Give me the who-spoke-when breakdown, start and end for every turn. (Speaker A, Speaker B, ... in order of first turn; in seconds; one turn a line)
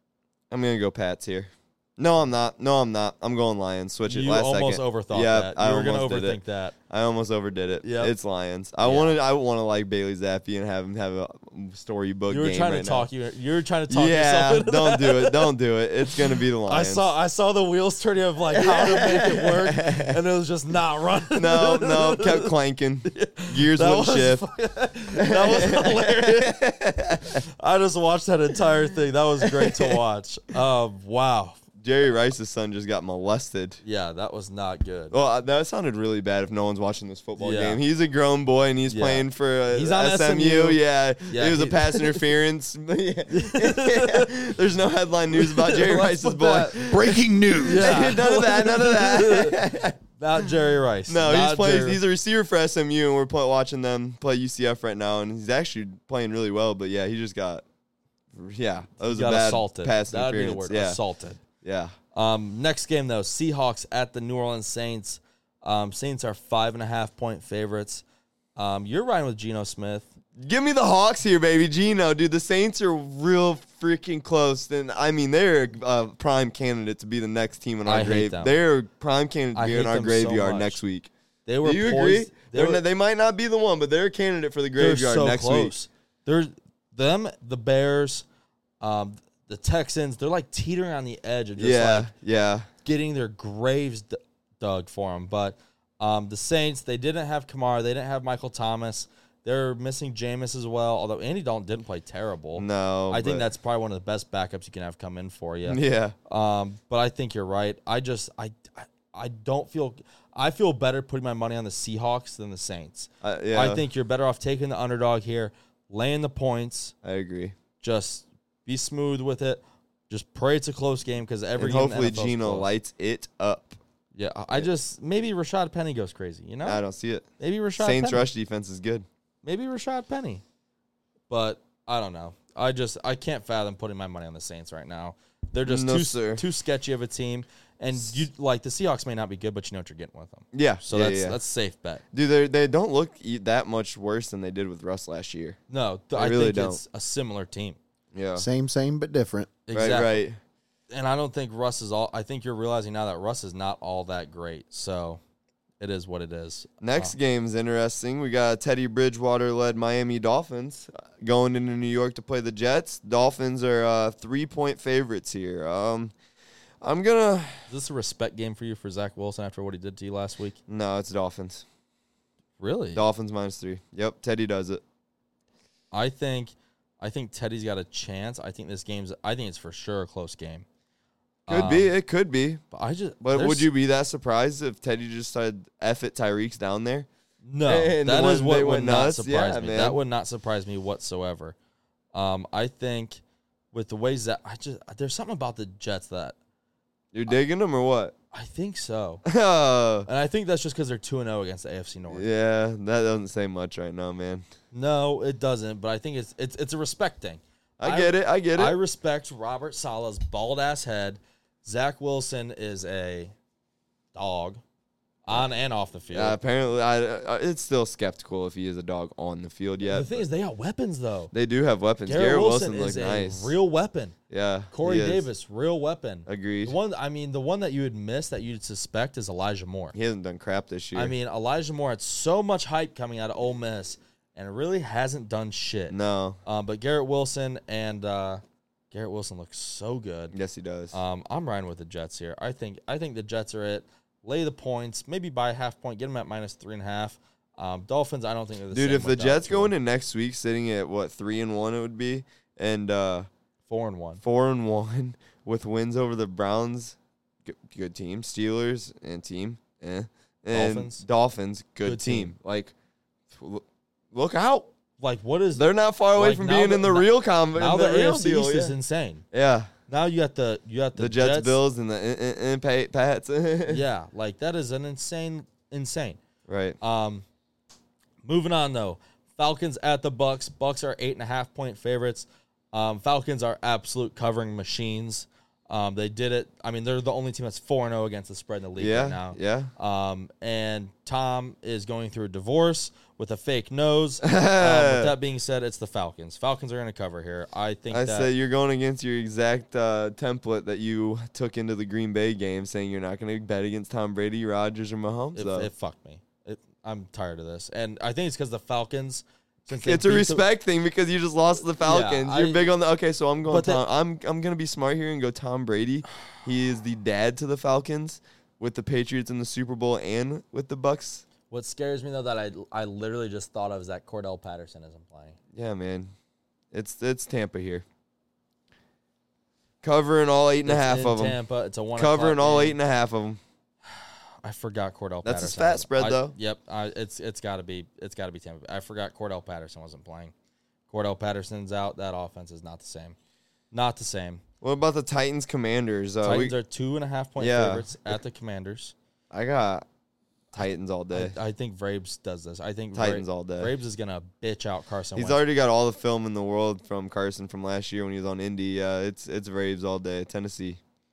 Speaker A: 0.5-6.4
Speaker B: 4.1-6.8
Speaker A: 6.9-13.1
Speaker B: 7.8-8.1
Speaker B: 8.8-9.2
Speaker B: 12.3-15.5
Speaker A: 13.9-17.0
Speaker B: 16.6-22.5
Speaker A: 18.6-20.1
Speaker A: 21.3-24.4
Speaker B: 23.1-26.6
Speaker A: 25.2-27.4
Speaker B: 27.2-31.6
Speaker A: 29.4-30.0
Speaker A: 31.8-33.8
Speaker B: 33.8-35.1
Speaker A: 35.1-50.4
Speaker B: 37.4-37.8
Speaker B: 38.9-42.2
Speaker B: 43.3-44.3
Speaker B: 45.4-46.8
Speaker C: 46.8-48.1
Speaker B: 47.6-49.6
Speaker B: 50.1-52.0
Speaker A: 51.1-57.6
Speaker A: 58.3-61.0
Speaker B: 59.0-61.4
Speaker A: 61.6-61.9
Speaker B: 62.1-68.0
Speaker B: 68.6-70.1
Speaker A: 70.4-81.1
Speaker B: 77.8-78.5
Speaker B: 79.5-80.8
Speaker B: 81.5-82.8
Speaker A: 81.6-85.7
Speaker B: 84.8-88.2
Speaker B: 88.8-92.1
Speaker A: 91.6-92.7
Speaker B: 92.8-116.9
Speaker A: 102.5-103.5
Speaker A: 105.7-106.2
Speaker A: 113.2-113.8
Speaker A: 117.0-117.5
Speaker B: 117.8-122.7
Speaker A: 121.6-123.8
Speaker B: 124.1-126.8
Speaker A: 126.6-129.0
Speaker B: 127.4-128.3
Speaker B: 129.4-130.4
Speaker B: 131.3-142.0
Speaker A: 135.7-136.4
Speaker A: 140.5-141.4
Speaker A: 142.1-145.6
Speaker B: 145.7-147.8
Speaker A: 146.1-146.8
Speaker A: 148.1-148.4
Speaker C: 148.4-149.5
Speaker B: 149.7-150.2
Speaker A: 149.7-150.4
Speaker B: 150.9-155.2
Speaker B: 155.8-157.1
Speaker A: 156.8-166.1
Speaker A: 166.8-167.7
Speaker B: 167.7-170.6
Speaker A: 170.7-171.6
Speaker B: 172.6-173.0
Speaker A: 172.9-174.8
Speaker B: 175.9-180.7
Speaker B: 181.5-181.9
Speaker A: 181.5-182.6
Speaker B: 182.7-183.7
Speaker A: 183.2-187.1
Speaker B: 187.4-191.6
Speaker A: 187.7-190.0
Speaker B: 192.1-193.2
Speaker B: 193.7-196.4
Speaker A: 197.1-198.1
Speaker B: 198.3-199.2
Speaker A: 199.2-200.1
Speaker B: 200.1-202.3
Speaker A: 202.1-204.4
Speaker B: 204.7-213.3
Speaker A: 207.8-208.8
Speaker B: 214.1-214.6
Speaker B: 215.2-216.4
Speaker A: 216.1-220.2
Speaker B: 219.9-221.3
Speaker A: 221.3-223.6
Speaker B: 222.1-224.1
Speaker A: 224.3-225.3
Speaker B: 224.7-229.9
Speaker A: 226.3-226.8
Speaker A: 229.9-231.1
Speaker B: 230.9-240.3
Speaker A: 235.9-236.4
Speaker A: 240.3-240.9
Speaker B: 240.9-249.7
Speaker A: 248.7-253.3
Speaker B: 253.7-254.2
Speaker A: 254.2-262.7
Speaker B: 260.5-261.0
Speaker B: 261.8-262.3
Speaker A: 263.3-264.7
Speaker B: 265.0-269.2
Speaker A: 265.5-268.7
Speaker A: 269.3-269.7
Speaker B: 269.9-271.6
Speaker A: 270.9-273.8
Speaker B: 273.7-276.2
Speaker A: 276.5-276.8
Speaker B: 276.8-277.2
Speaker B: 278.2-298.3
Speaker A: 288.8-289.7
Speaker A: 294.2-295.1
Speaker A: 297.9-305.7
Speaker B: 305.3-310.4
Speaker A: 309.7-321.2
Speaker B: 311.8-312.7
Speaker B: 313.4-313.8
Speaker B: 321.5-325.4
Speaker A: 325.5-326.1
Speaker A: 326.7-327.8
Speaker A: 329.8-331.4
Speaker B: 330.6-332.8
Speaker A: 331.9-333.4
Speaker B: 333.9-340.3
Speaker A: 335.2-336.3
Speaker B: 340.9-343.1
Speaker B: 343.7-344.4
Speaker A: 344.6-346.5
Speaker B: 346.2-348.9
Speaker A: 347.4-347.9
Speaker A: 349.3-349.8
Speaker A: 350.5-351.4
Speaker B: 350.5-355.4
Speaker A: 352.9-353.7
Speaker A: 355.1-360.8